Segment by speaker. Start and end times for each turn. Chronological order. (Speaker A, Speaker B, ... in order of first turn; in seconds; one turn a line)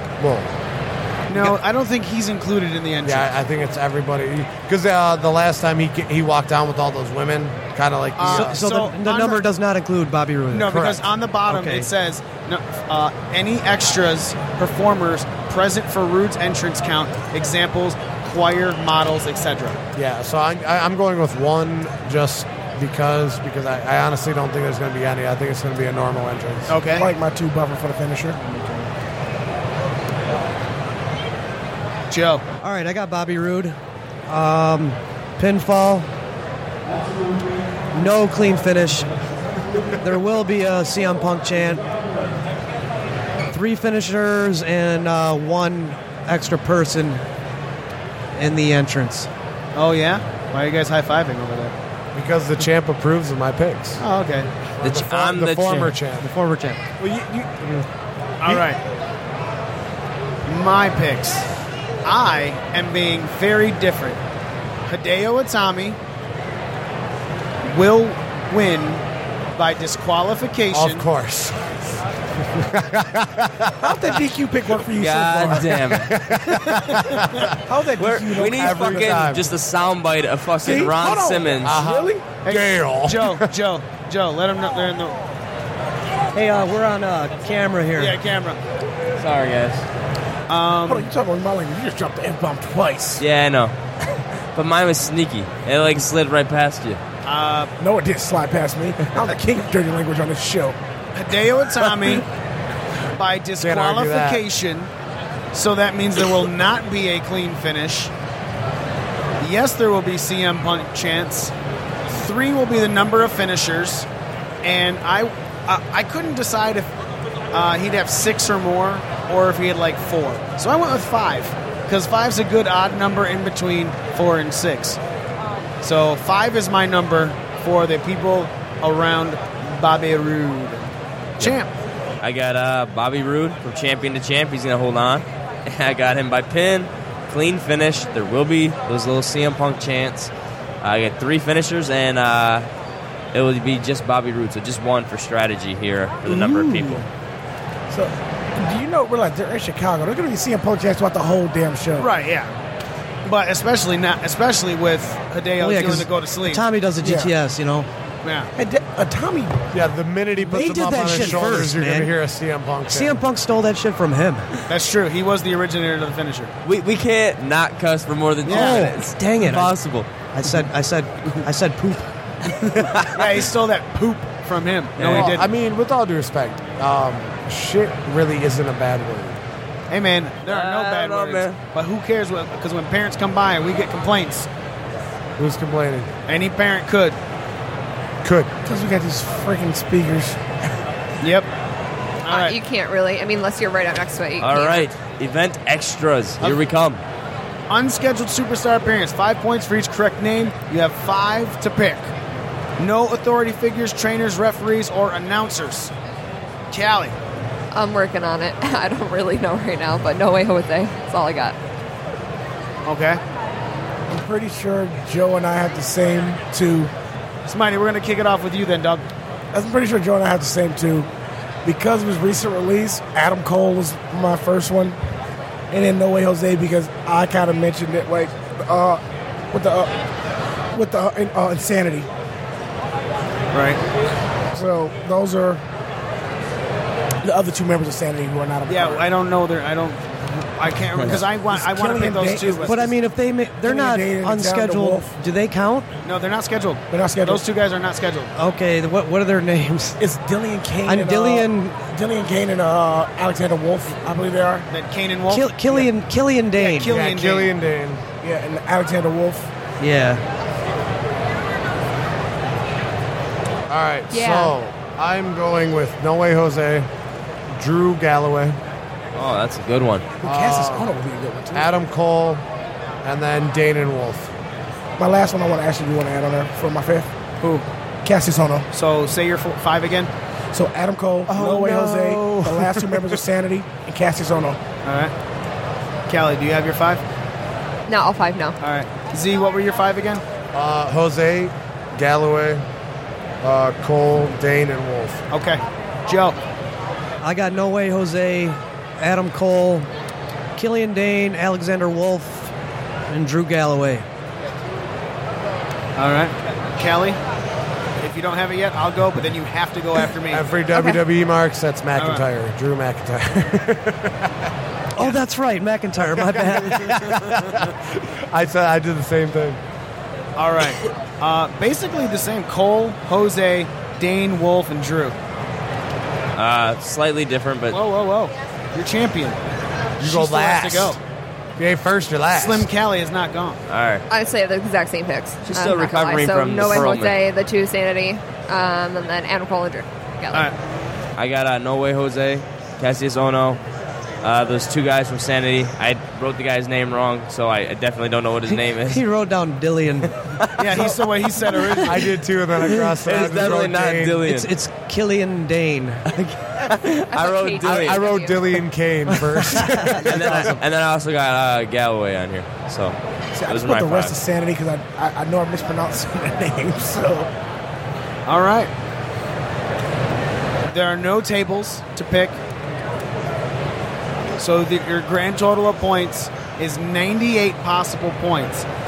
Speaker A: 0.2-0.5
Speaker B: 1.3-3.3
Speaker A: 3.0-8.6
Speaker B: 8.2-9.4
Speaker C: 8.3-10.8
Speaker B: 10.5-19.8
Speaker A: 10.7-11.1
Speaker C: 11.5-11.9
Speaker A: 19.9-26.7
Speaker B: 26.7-27.1
Speaker D: 26.9-28.4
Speaker B: 32.1-32.4
Speaker C: 32.6-36.1
Speaker C: 37.9-39.1
Speaker C: 40.0-41.9
Speaker C: 43.5-47.2
Speaker C: 48.4-49.3
Speaker B: 49.7-51.7
Speaker A: 52.1-54.0
Speaker B: 54.0-54.5
Speaker A: 54.8-56.3
Speaker E: 54.8-55.9
Speaker C: 56.1-56.9
Speaker B: 58.4-58.8
Speaker B: 60.4-61.5
Speaker B: 62.0-64.2
Speaker B: 64.8-66.0
Speaker B: 67.6-69.0
Speaker B: 69.5-71.1
Speaker A: 70.7-71.7
Speaker A: 72.5-74.0
Speaker D: 73.8-75.8
Speaker E: 75.0-76.1
Speaker A: 75.9-77.5
Speaker B: 76.6-77.4
Speaker D: 77.7-79.3
Speaker E: 78.0-81.8
Speaker A: 78.4-79.5
Speaker D: 80.6-82.3
Speaker A: 81.6-83.5
Speaker B: 82.4-85.2
Speaker C: 86.3-88.2
Speaker B: 88.0-88.6
Speaker E: 89.2-89.8
Speaker B: 90.5-91.1
Speaker D: 90.8-93.2
Speaker E: 93.2-97.0
Speaker B: 97.2-97.7
Speaker D: 97.8-100.8
Speaker B: 101.1-102.2
Speaker B: 103.1-104.9
Speaker A: 103.6-104.4
Speaker B: 105.5-108.1
Speaker B: 109.4-111.5
Speaker B: 112.1-114.1
Speaker B: 114.6-116.9
Speaker B: 117.5-125.0
Speaker B: 125.8-131.7
Speaker E: 132.2-140.3
Speaker E: 140.8-142.7
Speaker E: 143.3-147.0
Speaker C: 146.2-147.0
Speaker D: 147.9-152.1
Speaker B: 152.0-152.6
Speaker B: 153.2-156.6
Speaker C: 155.6-157.9
Speaker D: 157.0-157.3
Speaker B: 158.2-158.5
Speaker D: 158.6-159.6
Speaker A: 159.7-163.2
Speaker C: 160.4-162.1
Speaker C: 162.9-164.5
Speaker B: 164.7-166.5
Speaker E: 166.6-170.1
Speaker B: 168.4-168.8
Speaker C: 168.5-169.8
Speaker C: 170.3-172.1
Speaker B: 173.1-175.5
Speaker E: 175.0-175.3
Speaker A: 175.0-179.4
Speaker B: 179.9-184.5
Speaker E: 180.4-181.6
Speaker A: 185.4-186.1
Speaker B: 186.3-187.2
Speaker A: 188.2-188.5
Speaker D: 188.6-190.4
Speaker B: 191.2-191.5
Speaker B: 192.2-192.6
Speaker F: 192.3-194.9
Speaker E: 194.4-197.0
Speaker B: 197.7-202.1
Speaker B: 202.8-205.9
Speaker B: 206.7-207.2
Speaker F: 207.7-211.6
Speaker B: 212.8-213.2
Speaker D: 214.1-216.9
Speaker B: 217.5-219.0
Speaker D: 219.5-221.1
Speaker D: 221.6-225.0
Speaker D: 225.7-229.9
Speaker D: 230.7-232.1
Speaker B: 233.5-233.8
Speaker D: 234.5-235.6
Speaker D: 237.2-239.0
Speaker B: 238.7-242.9
Speaker D: 241.0-242.8
Speaker C: 242.6-245.9
Speaker D: 243.6-245.1
Speaker B: 246.0-248.3
Speaker D: 246.9-247.4
Speaker C: 248.3-250.0
Speaker D: 250.0-254.7
Speaker C: 250.8-251.8
Speaker B: 254.7-255.8
Speaker C: 255.3-257.0
Speaker B: 256.6-257.5
Speaker A: 256.9-258.0
Speaker D: 258.2-259.5
Speaker C: 259.8-260.2
Speaker A: 263.7-266.9
Speaker F: 264.1-264.6
Speaker A: 267.5-268.6
Speaker E: 269.1-270.1
Speaker D: 270.2-271.7
Speaker A: 270.2-270.9
Speaker A: 271.5-272.4
Speaker A: 273.0-274.3
Speaker D: 275.0-277.1
Speaker B: 277.4-277.6
Speaker D: 278.0-278.7
Speaker B: 278.7-280.1
Speaker D: 280.5-284.6
Speaker C: 281.3-283.0
Speaker B: 284.8-285.1
Speaker B: 286.1-287.0
Speaker F: 287.9-288.6
Speaker B: 288.6-290.2
Speaker A: 290.5-292.6
Speaker A: 293.4-295.2
Speaker B: 295.3-296.4
Speaker C: 297.2-299.9
Speaker C: 300.6-302.5
Speaker C: 303.1-304.0
Speaker B: 306.0-307.2
Speaker B: 308.0-310.4
Speaker A: 310.3-314.3
Speaker F: 310.7-311.0
Speaker B: 312.0-312.2
Speaker C: 314.9-317.1
Speaker A: 316.2-319.6
Speaker B: 320.4-325.1
Speaker E: 326.4-327.8
Speaker B: 327.7-329.4
Speaker B: 330.0-331.0
Speaker A: 330.0-331.0
Speaker A: 331.6-332.7
Speaker B: 332.3-333.6
Speaker E: 333.7-334.0
Speaker F: 334.1-340.5
Speaker E: 335.4-337.2
Speaker E: 341.1-343.6
Speaker E: 344.2-349.0
Speaker C: 348.9-350.1
Speaker B: 350.6-352.1
Speaker A: 351.8-354.2
Speaker C: 352.6-353.6
Speaker E: 353.0-354.5
Speaker C: 354.2-356.0
Speaker E: 356.1-358.1
Speaker F: 357.1-358.5
Speaker A: 357.6-360.6
Speaker C: 359.2-360.5
Speaker E: 359.9-363.0
Speaker D: 363.3-367.3
Speaker E: 363.5-364.2
Speaker B: 368.3-368.7
Speaker B: 370.7-372.4
Speaker B: 374.4-378.7